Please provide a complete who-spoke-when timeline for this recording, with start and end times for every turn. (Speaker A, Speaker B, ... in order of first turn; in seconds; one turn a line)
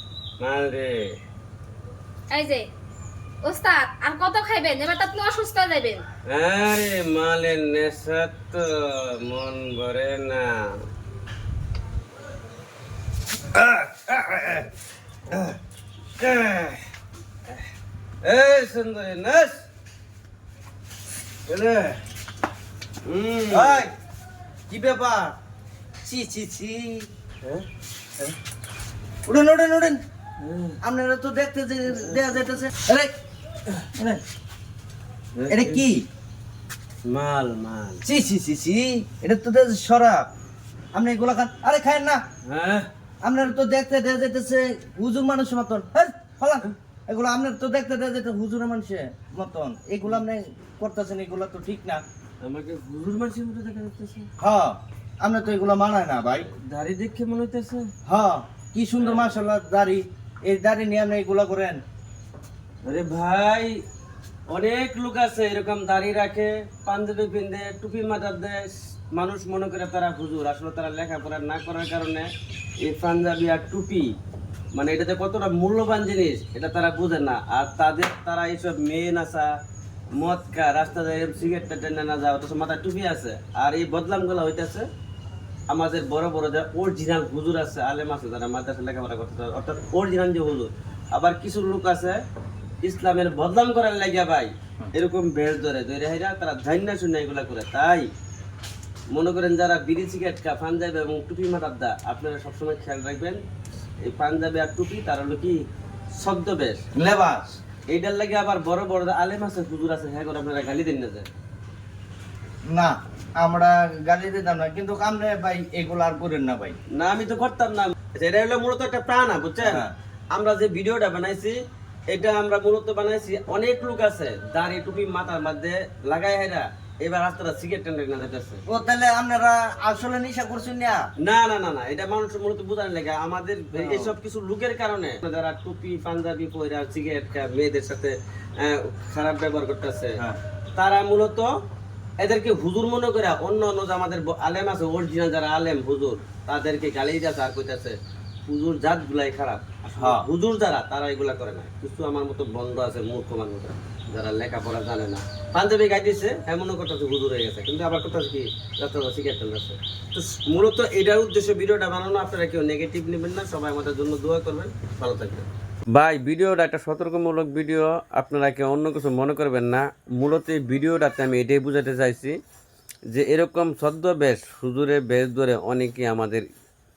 Speaker A: 0.4-1.2
Speaker B: 2.3-2.7
Speaker B: 3.4-6.0
Speaker A: 6.3-10.8
Speaker A: 13.4-14.7
Speaker A: 15.3-15.6
Speaker A: 16.2-16.8
Speaker A: 18.2-19.7
Speaker A: 21.5-22.0
Speaker A: 23.0-23.9
Speaker C: 23.5-23.9
Speaker C: 24.7-25.3
Speaker C: 26.0-27.1
Speaker C: 29.2-30.0
Speaker A: 30.4-30.8
Speaker C: 30.8-33.1
Speaker A: 32.0-32.4
Speaker C: 33.9-34.2
Speaker A: 35.3-35.9
Speaker C: 35.5-36.0
Speaker A: 37.0-38.0
Speaker C: 38.0-40.3
Speaker C: 40.9-42.2
Speaker A: 42.4-42.9
Speaker C: 43.2-52.0
Speaker A: 52.4-54.3
Speaker C: 54.4-56.5
Speaker A: 56.5-57.9
Speaker C: 58.0-61.8
Speaker A: 59.0-59.4
Speaker A: 62.8-63.8
Speaker A: 64.5-74.1
Speaker A: 74.7-79.5
Speaker A: 80.1-84.9
Speaker A: 85.7-92.2
Speaker A: 92.8-98.1
Speaker A: 99.1-103.4
Speaker A: 104.0-105.6
Speaker A: 106.1-106.8
Speaker C: 106.9-107.6
Speaker A: 107.9-111.3
Speaker C: 112.7-116.8
Speaker A: 116.9-121.6
Speaker C: 119.6-119.9
Speaker A: 122.1-128.6
Speaker C: 128.7-131.0
Speaker A: 131.2-140.2
Speaker C: 133.7-134.1
Speaker A: 140.7-141.5
Speaker A: 142.2-172.4
Speaker C: 150.0-150.2
Speaker A: 173.1-176.4